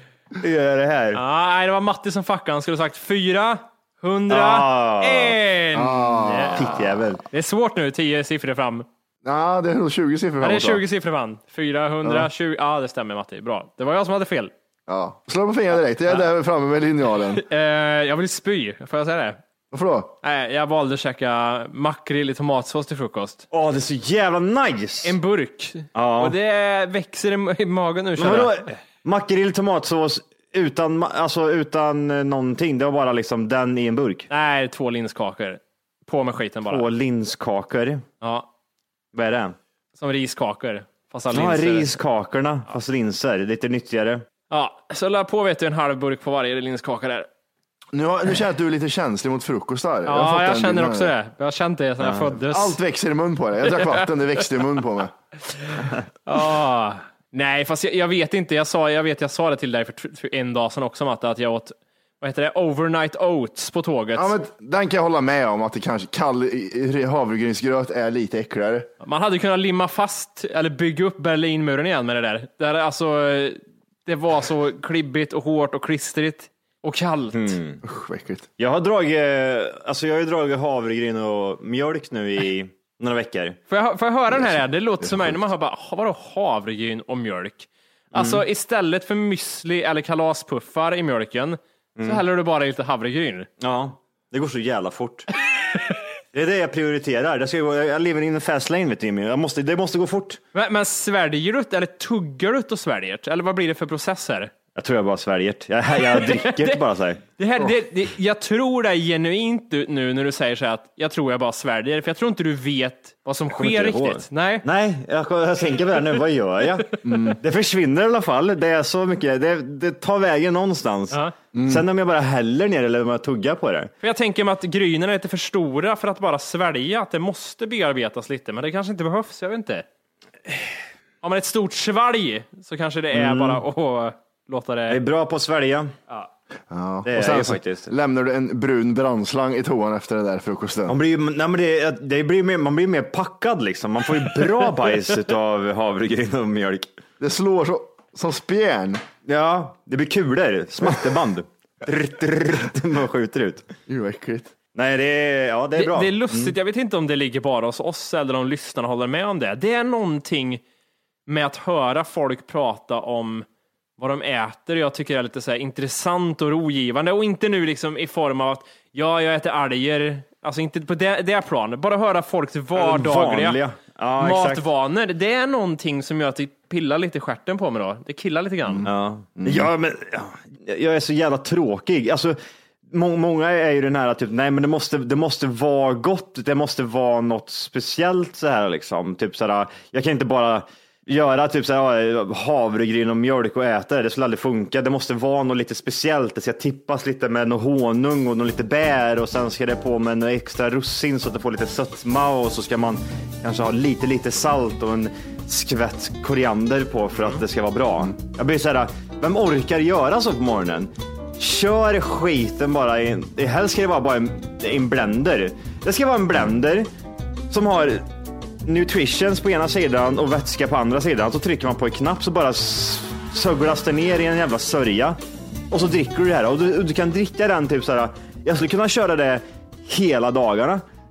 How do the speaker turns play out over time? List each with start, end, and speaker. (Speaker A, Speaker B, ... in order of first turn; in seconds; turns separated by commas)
Speaker A: 0.4-1.2, Speaker B: 1.1-6.7, Speaker A: 4.3-5.4, Speaker C: 5.8-7.0, Speaker A: 6.5-7.2, Speaker B: 7.3-8.9, Speaker C: 9.2-10.8, Speaker B: 10.4-14.5, Speaker C: 14.9-17.4, Speaker B: 17.3-19.4, Speaker C: 19.7-20.1, Speaker B: 20.2-23.4, Speaker A: 23.5-25.2, Speaker B: 25.0-28.7, Speaker A: 25.9-26.4, Speaker A: 28.2-34.3, Speaker B: 34.3-36.9, Speaker A: 36.7-38.0, Speaker B: 38.2-38.5, Speaker A: 39.1-39.6, Speaker B: 40.0-42.0, Speaker A: 41.3-44.2, Speaker B: 44.5-47.3, Speaker C: 47.9-51.1, Speaker B: 50.1-52.8, Speaker A: 52.0-52.4, Speaker C: 52.5-55.1, Speaker B: 53.7-54.1, Speaker B: 55.5-64.3, Speaker C: 64.2-68.9, Speaker B: 69.0-77.6, Speaker A: 77.3-77.8, Speaker C: 77.8-78.5, Speaker A: 78.6-83.6, Speaker B: 83.7-93.5, Speaker C: 85.0-85.3, Speaker A: 88.1-88.4, Speaker A: 92.0-92.2, Speaker A: 93.6-95.3, Speaker A: 96.3-100.4, Speaker B: 100.5-104.5, Speaker A: 104.8-107.2, Speaker B: 106.0-106.8, Speaker B: 107.4-114.7, Speaker A: 113.5-123.9, Speaker C: 117.0-117.4, Speaker C: 121.5-121.8, Speaker B: 124.0-129.8, Speaker B: 131.2-135.0, Speaker A: 133.1-133.6, Speaker A: 134.9-135.9, Speaker C: 136.7-141.0, Speaker A: 137.1-137.9, Speaker A: 140.9-146.9, Speaker C: 147.2-149.0, Speaker A: 149.3-153.7, Speaker C: 150.9-151.1, Speaker C: 153.9-154.5, Speaker A: 154.8-156.5, Speaker B: 155.8-160.6, Speaker B: 161.3-163.4, Speaker B: 164.0-173.6, Speaker A: 172.8-174.7, Speaker B: 174.2-178.9, Speaker C: 178.7-179.7, Speaker A: 178.9-182.4, Speaker A: 182.9-216.9, Speaker B: 207.2-207.4, Speaker A: 217.5-218.1, Speaker A: 218.7-225.2, Speaker A: 225.7-230.8